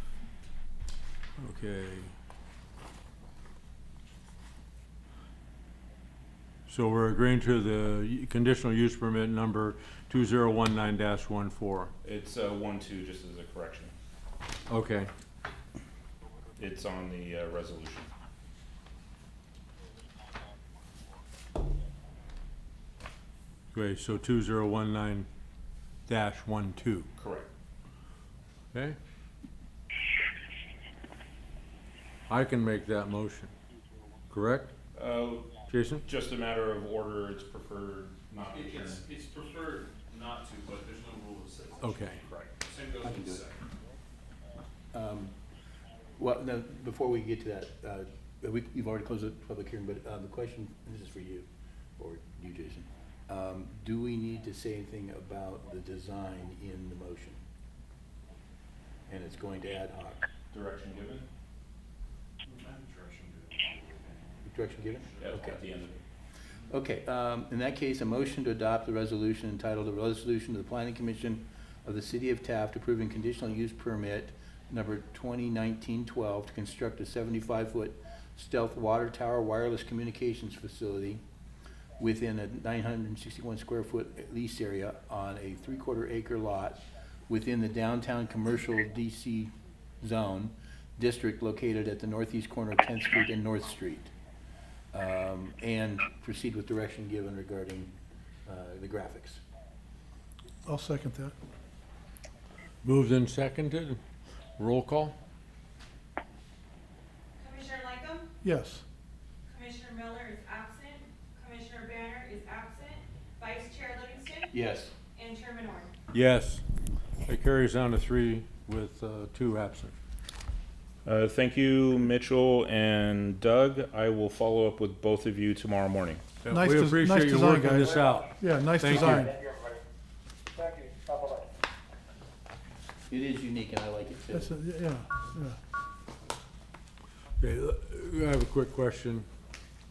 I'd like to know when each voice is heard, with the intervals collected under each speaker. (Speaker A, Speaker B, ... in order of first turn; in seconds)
Speaker A: 1.4-2.1, 6.7-11.9, 14.7-15.1, 23.7-25.3, 26.1-27.1, 32.3-33.5, 34.3-34.7, 35.7-36.0, 41.8-42.2, 102.8-104.0, 104.6-105.2, 116.1-116.6, 117.2-119.9, 126.4-129.3, 137.4-139.2
Speaker B: 12.0-13.9, 16.6-18.1, 27.2-27.5, 34.9-35.5, 36.0-39.0, 42.2-42.5, 60.5-61.2, 65.2-66.0, 121.0-126.2
Speaker C: 38.4-43.6, 62.4-65.9
Speaker D: 43.0-43.4, 44.9-45.3, 46.2-57.4, 59.1-60.2, 64.4-65.5, 66.7-81.2, 82.0-94.1, 94.9-97.9, 98.5-99.4, 114.5-114.9, 133.1-134.6
Speaker E: 100.6-101.3, 108.4-108.8, 126.5-127.8, 128.4-129.2, 134.4-135.6
Speaker F: 107.4-108.3, 109.5-114.5, 115.1-115.9
Speaker G: 127.8-128.2, 128.9-129.5, 130.6-131.4